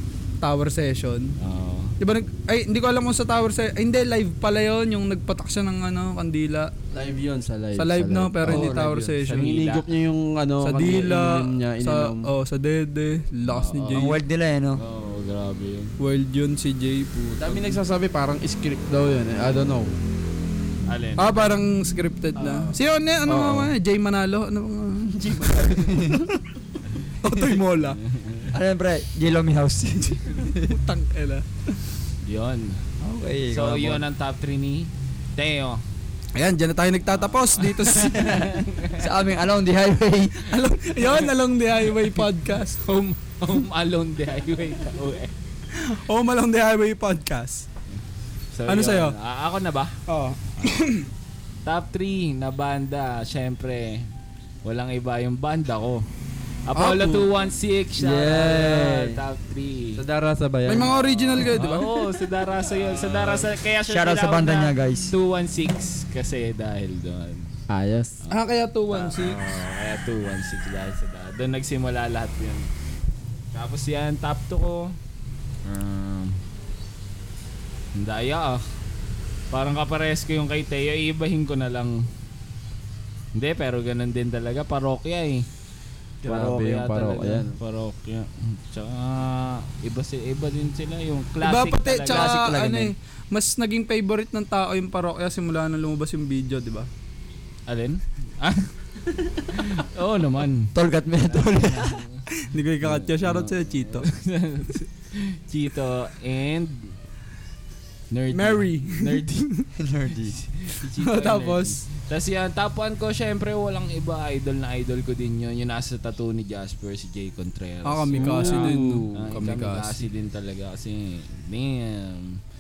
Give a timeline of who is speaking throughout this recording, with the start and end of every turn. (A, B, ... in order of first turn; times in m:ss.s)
0:00.4-0:01.4 A
0:01.4-0:02.0 B
0:02.0-0:06.7 A
0:06.9-0:12.3 C
0:07.8-0:09.7 A
0:08.4-0:09.2 D
0:09.3-0:09.8 B
0:10.6-0:14.2 A
0:13.4-0:14.2 B
0:13.9-0:14.8 D
0:14.8-0:16.0 B
0:16.0-0:17.3 A
0:17.4-0:20.0 C
0:20.9-0:21.5 B
0:21.2-0:26.3 A
0:22.4-0:23.7 C
0:25.6-0:26.3 D
0:27.2-0:28.0 A
0:27.8-0:28.5 B
0:28.5-0:30.8 D
0:30.4-0:31.5 A
0:32.2-0:32.8 B
0:33.0-0:34.0 D
0:33.5-0:35.8 B
0:36.4-0:38.7 A
0:37.1-0:39.1 B
0:39.0-0:40.5 D
0:40.4-0:42.8 A
0:41.0-0:41.3 B
0:41.9-0:42.2 B
0:42.8-0:45.3 B
0:45.8-0:47.7 A
0:48.5-0:50.0 B
0:48.7-0:49.2 A
0:50.1-0:51.1 A
0:51.7-0:54.1 B
0:54.6-0:56.0 B
0:56.7-1:00.0 B
0:56.8-0:57.3 A
0:58.0-0:59.2 C
1:00.0-1:01.4 C
1:00.7-1:02.0 A
1:00.8-1:07.5 B
1:03.9-1:05.1 D
1:07.7-1:08.2 C
1:08.3-1:09.6 A
1:08.9-1:12.7 B
1:13.5-1:14.9 B
1:15.6-1:16.4 B
1:18.0-1:18.6 B
1:19.5-1:22.0 B
1:23.4-1:25.5 B
1:26.2-1:27.6 C
1:26.2-1:32.6 B
1:31.4-1:36.9 A
1:32.1-1:32.9 D
1:37.7-1:42.2 B
1:40.7-1:42.0 D
1:42.4-1:44.1 A
1:42.8-1:47.0 B
1:48.1-1:49.4 B
1:48.3-1:49.7 A
1:49.8-1:50.4 D
1:50.3-2:02.4 B
1:50.8-1:51.8 A
1:57.8-2:00.1 A
1:58.2-1:59.2 C